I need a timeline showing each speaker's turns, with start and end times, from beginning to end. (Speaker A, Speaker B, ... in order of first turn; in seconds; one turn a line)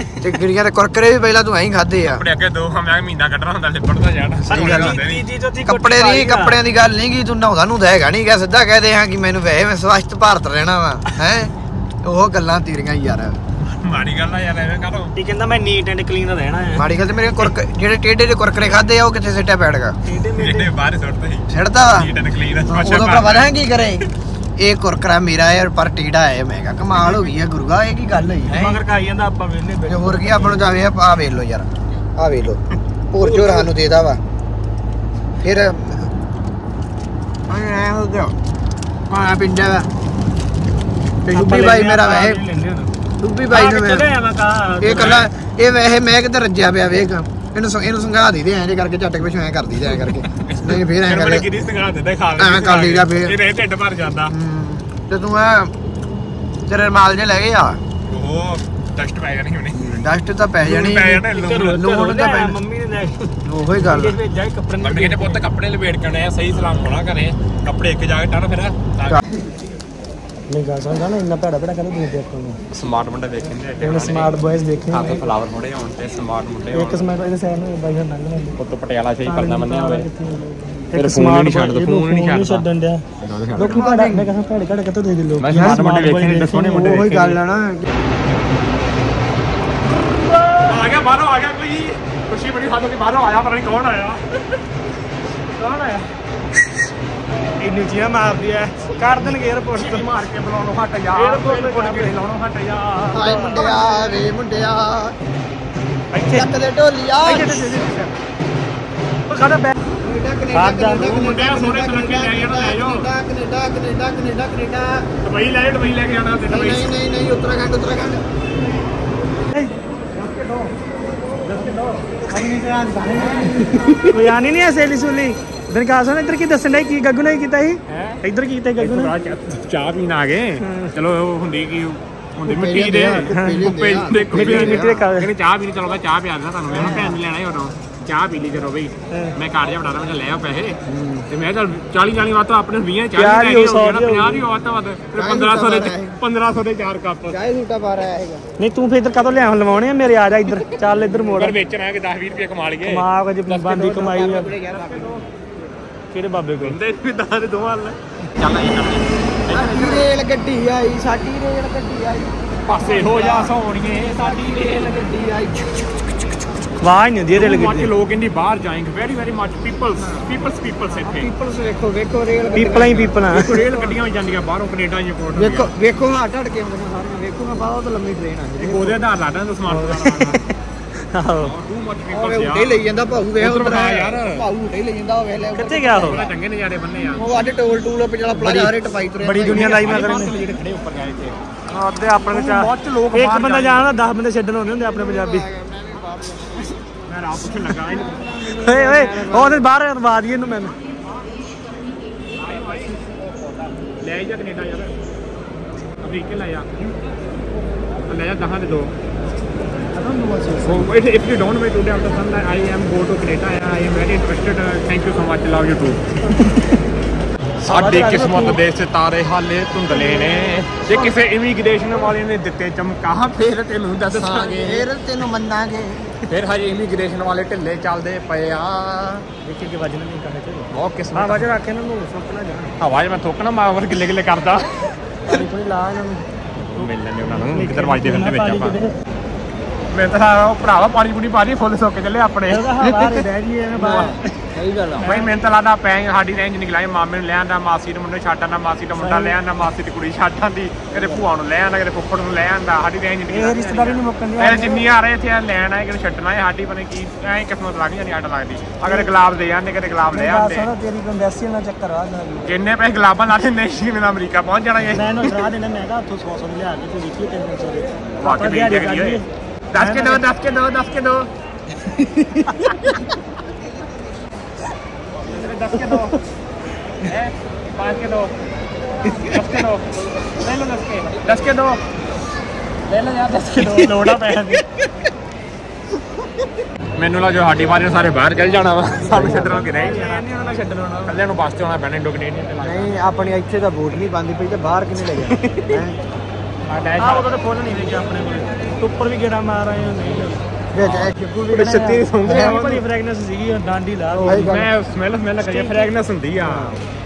Speaker A: 0.2-2.2
Speaker B: 2.0-5.2
Speaker A: 4.5-5.0
Speaker C: 4.5-6.6
Speaker A: 5.6-13.4
Speaker B: 13.6-15.1
Speaker C: 15.2-16.9
Speaker A: 16.8-20.0
Speaker C: 20.1-20.7
Speaker B: 20.3-23.5
Speaker A: 21.5-22.1
Speaker A: 22.6-28.8
Speaker C: 28.5-30.7
Speaker A: 29.9-32.6
Speaker A: 33.1-34.2
Speaker C: 33.2-33.7
Speaker A: 35.4-36.1
Speaker A: 37.5-38.4
Speaker A: 39.1-39.9
Speaker A: 41.2-42.4
Speaker C: 41.3-42.9
Speaker A: 43.2-44.1
Speaker C: 43.5-45.2
Speaker A: 44.8-51.5
Speaker B: 45.0-45.3
Speaker B: 50.2-54.3
Speaker A: 52.4-53.4
Speaker A: 54.3-55.7
Speaker A: 56.7-57.8
Speaker B: 58.1-60.0
Speaker A: 59.7-62.6
Speaker B: 60.6-61.8
Speaker C: 61.3-65.4
Speaker A: 63.5-64.2
Speaker B: 64.8-69.2
Speaker C: 70.5-72.6
Speaker B: 72.7-74.3
Speaker C: 73.8-75.3
Speaker B: 74.9-77.1
Speaker C: 76.7-78.6
Speaker B: 78.6-80.1
Speaker C: 79.2-83.0
Speaker B: 80.9-82.7
Speaker B: 83.2-83.8
Speaker A: 83.6-84.3
Speaker C: 83.6-87.0
Speaker B: 85.4-87.4
Speaker A: 85.5-85.8
Speaker A: 86.8-87.9
Speaker C: 90.1-90.8
Speaker B: 90.7-94.2
Speaker C: 95.5-96.1
Speaker C: 97.6-100.1
Speaker B: 99.2-102.8
Speaker C: 101.1-102.2
Speaker C: 102.7-104.2
Speaker A: 103.1-105.2
Speaker C: 106.1-106.5
Speaker A: 106.2-107.8
Speaker C: 107.2-108.1
Speaker C: 109.3-109.8
Speaker A: 110.0-115.1
Speaker C: 110.5-111.1
Speaker B: 111.0-113.1
Speaker B: 115.2-116.9
Speaker A: 116.5-118.2
Speaker B: 120.2-120.7
Speaker C: 121.5-121.9
Speaker B: 121.5-121.8
Speaker A: 122.3-124.1
Speaker B: 123.1-123.9
Speaker C: 124.1-129.1
Speaker B: 127.9-128.2
Speaker B: 128.8-147.4
Speaker C: 130.6-130.9
Speaker A: 132.5-135.1
Speaker C: 133.3-133.7
Speaker C: 134.3-135.3
Speaker A: 136.7-137.2
Speaker A: 140.9-141.3
Speaker C: 143.2-144.5
Speaker A: 145.2-146.2
Speaker A: 147.3-148.4
Speaker C: 148.6-151.6
Speaker B: 150.5-155.2
Speaker C: 152.8-154.6
Speaker A: 153.8-155.2
Speaker C: 156.1-156.8
Speaker B: 156.6-160.1
Speaker A: 159.5-163.5
Speaker B: 162.7-165.1
Speaker A: 164.1-166.1
Speaker C: 166.8-167.9
Speaker B: 167.3-171.3
Speaker A: 171.1-173.2
Speaker C: 172.5-173.5
Speaker B: 173.3-175.7
Speaker A: 175.3-179.0
Speaker B: 178.6-180.4
Speaker C: 179.7-180.5
Speaker C: 181.1-181.5
Speaker B: 181.4-182.8
Speaker A: 182.1-186.3
Speaker B: 183.4-184.5
Speaker C: 185.5-186.2
Speaker B: 186.0-187.2
Speaker A: 187.2-189.8
Speaker B: 188.4-188.7
Speaker C: 189.2-190.3
Speaker B: 189.4-191.4
Speaker C: 191.7-195.5
Speaker B: 192.3-193.9
Speaker A: 194.8-196.8
Speaker B: 197.1-198.3
Speaker A: 198.0-199.6
Speaker C: 198.6-200.8
Speaker B: 202.4-204.9
Speaker B: 206.0-206.8
Speaker B: 208.1-208.9
Speaker C: 209.9-210.9
Speaker B: 210.6-216.0
Speaker C: 217.6-218.6
Speaker B: 217.6-224.9
Speaker C: 219.9-220.6
Speaker A: 224.1-226.2
Speaker B: 226.3-229.3
Speaker C: 229.4-232.8
Speaker B: 230.7-231.5
Speaker B: 232.8-234.8
Speaker C: 235.3-238.9
Speaker B: 236.6-238.8
Speaker B: 239.9-243.2
Speaker C: 242.5-244.5
Speaker A: 243.7-245.0
Speaker C: 245.0-245.3
Speaker B: 245.0-260.7
Speaker C: 248.9-249.4
Speaker C: 253.3-254.8
Speaker C: 258.8-259.1
Speaker C: 260.1-262.6
Speaker B: 262.4-265.4
Speaker C: 264.9-270.2
Speaker B: 268.2-269.2
Speaker B: 269.7-271.3
Speaker A: 271.9-272.5
Speaker B: 275.2-276.2
Speaker C: 275.7-276.1
Speaker B: 277.0-278.3
Speaker B: 279.1-281.8
Speaker B: 282.9-284.6
Speaker B: 287.0-292.9
Speaker A: 289.1-289.8
Speaker C: 289.2-291.2
Speaker A: 292.6-296.0
Speaker B: 295.2-295.8
Speaker B: 296.6-298.1
Speaker C: 297.0-300.4
Speaker B: 300.2-302.8
Speaker A: 300.7-301.6
Speaker C: 301.5-304.6
Speaker A: 302.2-302.6
Speaker A: 304.1-304.7
Speaker B: 304.2-306.8
Speaker C: 305.4-305.9
Speaker A: 306.4-306.8